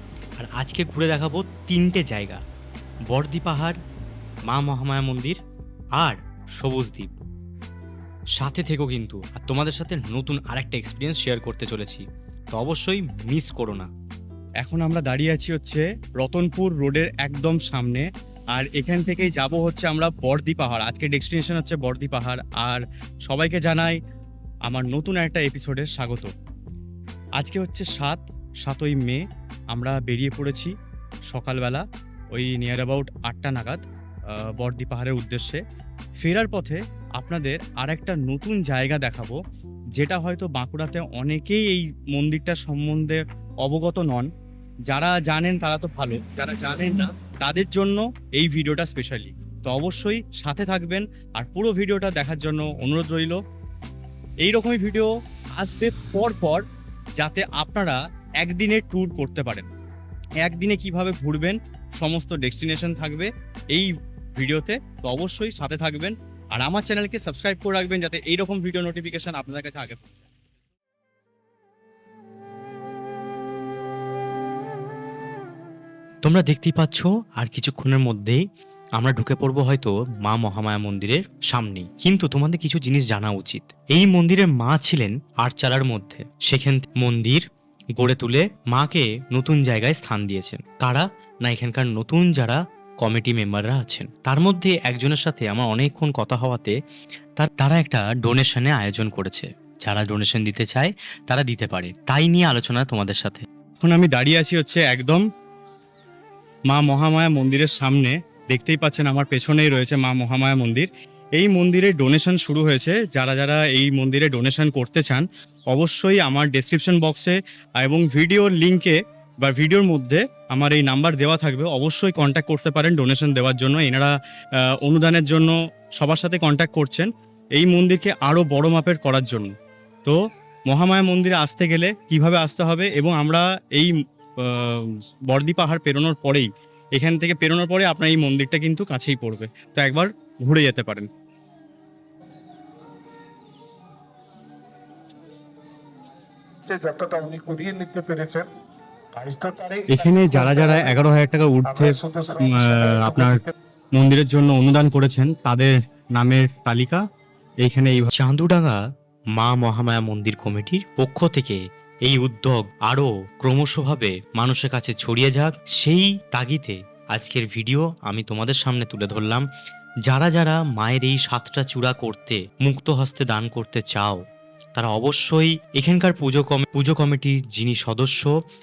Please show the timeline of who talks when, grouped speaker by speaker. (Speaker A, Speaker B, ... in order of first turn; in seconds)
Speaker A: 0.4-2.4, 3.1-3.8, 4.5-5.3, 6.0-7.1, 8.4-13.9, 76.2-78.4, 79.0-96.8, 97.4-103.4, 158.1-158.8, 159.4-169.5, 170.1-174.2, 174.7-178.3
Speaker B: 14.6-24.0, 24.6-26.3, 27.4-30.7, 31.3-33.8, 34.3-35.6, 36.2-39.4, 40.0-44.3, 44.9-53.4, 54.4-56.6, 57.2-59.7, 60.4-70.0, 103.8-105.2, 106.7-124.1, 124.8-129.5, 130.7-141.1, 149.9-157.0, 157.6-158.1
Speaker C: 146.6-148.5, 149.1-150.7, 151.8-153.1